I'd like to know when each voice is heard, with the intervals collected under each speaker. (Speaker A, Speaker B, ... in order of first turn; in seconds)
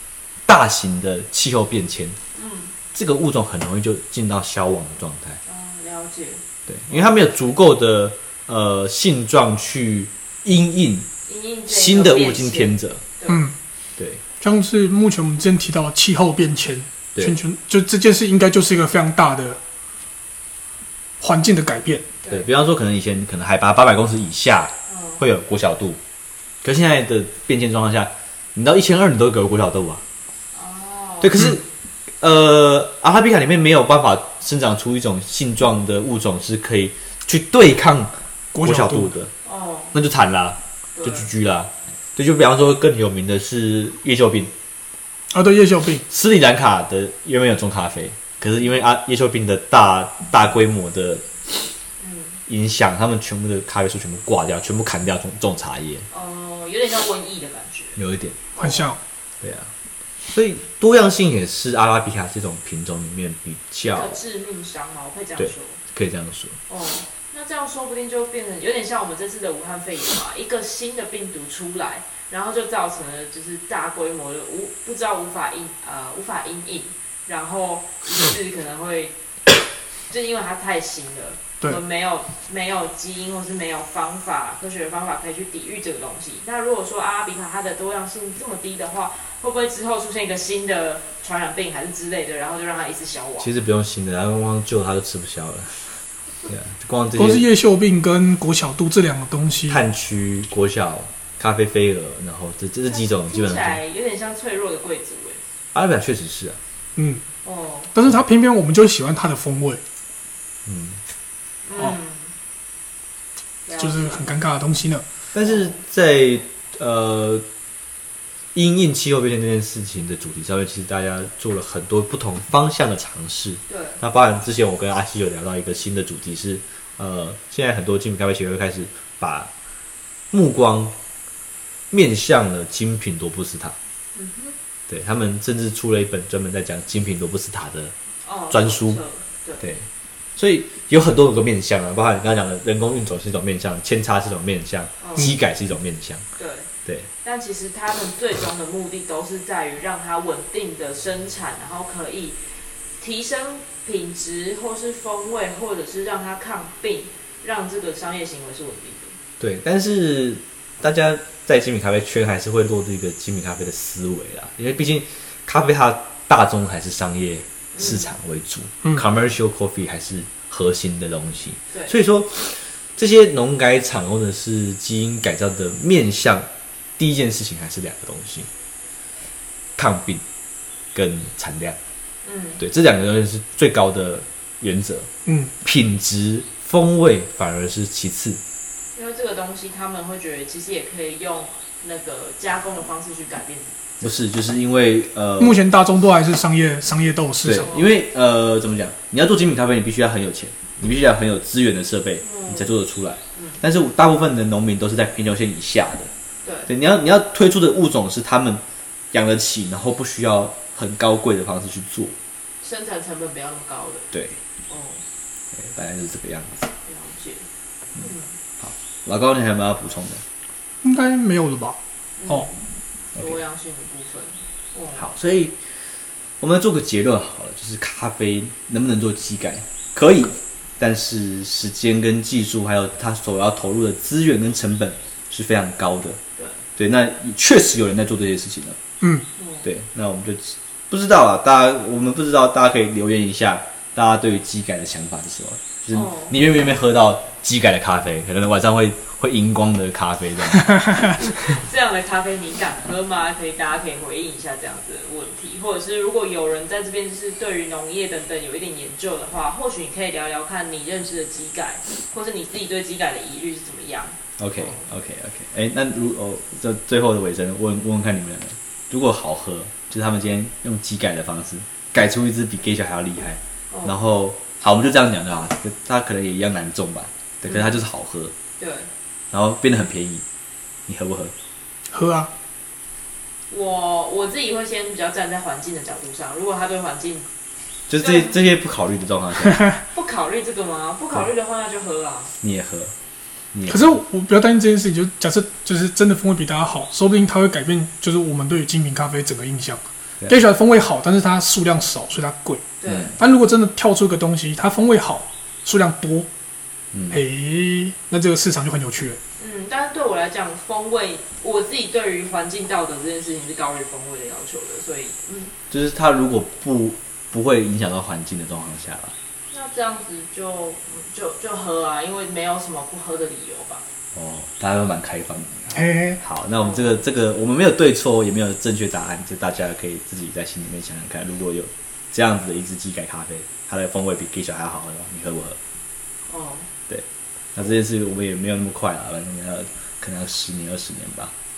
Speaker A: 0.5-2.2, 2.9-5.4, 6.7-11.1, 11.7-13.0, 22.3-26.0, 26.6-30.0, 31.2-31.7, 32.2-39.3, 39.9-44.5, 46.1-51.2, 52.5-56.1, 58.0-58.4, 59.4-59.7, 60.3-64.2, 65.4-66.6, 93.4-97.5, 99.7-103.8, 105.7-106.6, 110.7-111.0, 115.3-117.4, 118.5-129.5, 130.3-130.9, 131.9-133.8, 134.9-137.9, 138.5-139.0, 139.6-146.2, 159.4-178.5, 179.8-180.2, 180.9-181.8, 182.6-185.1, 185.6-188.4, 194.0-195.6, 197.4-206.1, 206.7-212.1, 214.1-214.4, 215.6-216.7, 218.6-220.2, 224.9-225.6, 226.4-236.2, 236.8-238.8, 239.6-250.9, 264.4-278.3, 279.3-280.2, 280.9-281.3, 287.9-289.6, 292.4-292.9, 293.5-294.0, 302.9-303.1, 306.9-307.2, 315.7-319.1, 324.1-335.6, 336.9-341.3
Speaker B: 2.4-2.8, 5.5-7.3, 11.3-13.5, 24.9-25.2, 30.5-31.3, 39.4-40.0, 41.0-41.3, 52.0-52.4, 56.1-58.0, 58.5-58.9, 63.9-65.8, 66.7-79.1, 80.1-93.5, 102.9-105.4, 107.4-107.9, 111.6-112.3, 113.7-114.3, 115.4-115.8, 123.7-124.0, 134.2-134.6, 138.2-139.6, 145.0-145.3, 146.4-146.7, 147.2-152.4, 153.0-159.2, 167.8-168.1, 182.2-182.6, 188.9-194.2, 197.5-198.0, 202.2-202.8, 203.3-203.6, 206.4-206.7, 212.6-214.1, 214.7-215.0, 216.8-217.5, 218.0-218.4, 222.2-222.6, 223.2-225.1, 236.4-236.6, 239.4-239.7, 245.9-246.3, 251.1-264.8, 273.7-274.0, 278.6-278.9, 283.5-287.3, 288.0-288.3, 289.9-292.3, 302.8-303.2, 309.4-315.5, 319.5-323.8, 326.6-327.1, 336.3-336.7
Speaker C: 13.3-13.6, 14.4-19.6, 21.2-22.1, 38.5-39.1, 45.3-46.0, 58.6-59.0, 97.2-99.8, 107.0-107.2, 107.9-109.8, 113.8-115.0, 185.3-185.5, 195.4-197.7, 220.8-222.5, 239.0-239.3, 281.9-282.3, 293.7-302.6, 303.2-306.3, 307.1-309.2, 325.7-326.2